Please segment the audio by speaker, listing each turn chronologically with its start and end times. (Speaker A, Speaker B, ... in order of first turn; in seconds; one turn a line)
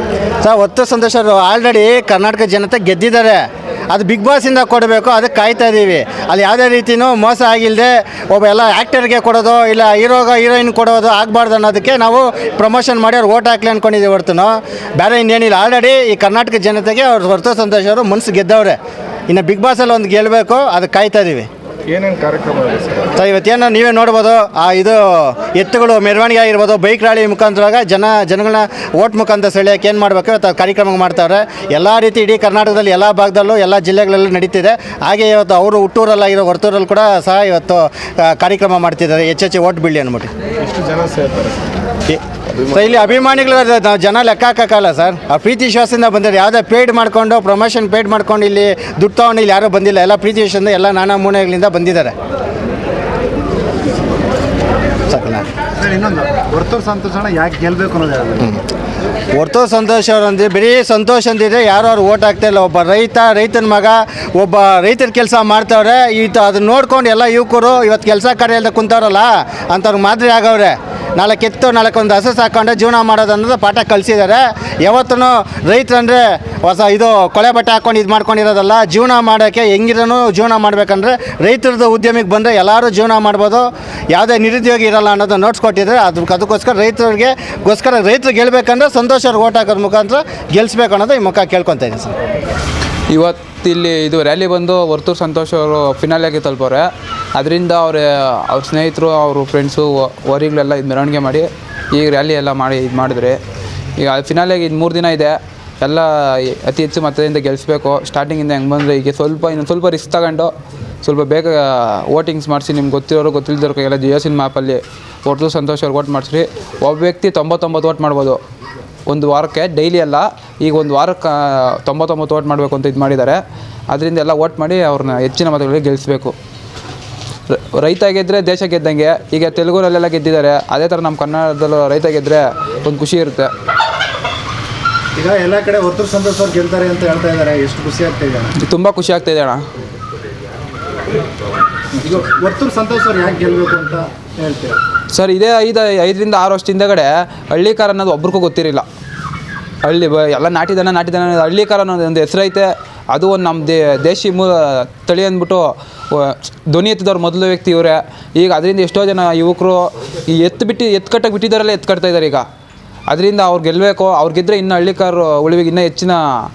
Speaker A: 0.4-18.8
Speaker A: 19.3-21.5
Speaker B: 21.9-23.1
Speaker A: 23.2-40.3
Speaker B: 40.6-41.6
Speaker A: 42.1-52.1
Speaker A: 55.1-55.5
Speaker C: 55.8-58.5
Speaker A: 59.3-92.1
Speaker D: 93.1-103.4
Speaker D: 104.0-110.5
Speaker D: 111.0-118.4
Speaker D: 119.1-126.3
Speaker D: 127.5-133.5
Speaker C: 135.2-138.5
Speaker D: 138.6-139.6
Speaker C: 142.0-144.8
Speaker D: 145.1-148.8
Speaker D: 149.8-162.4
Speaker D: 163.1-166.2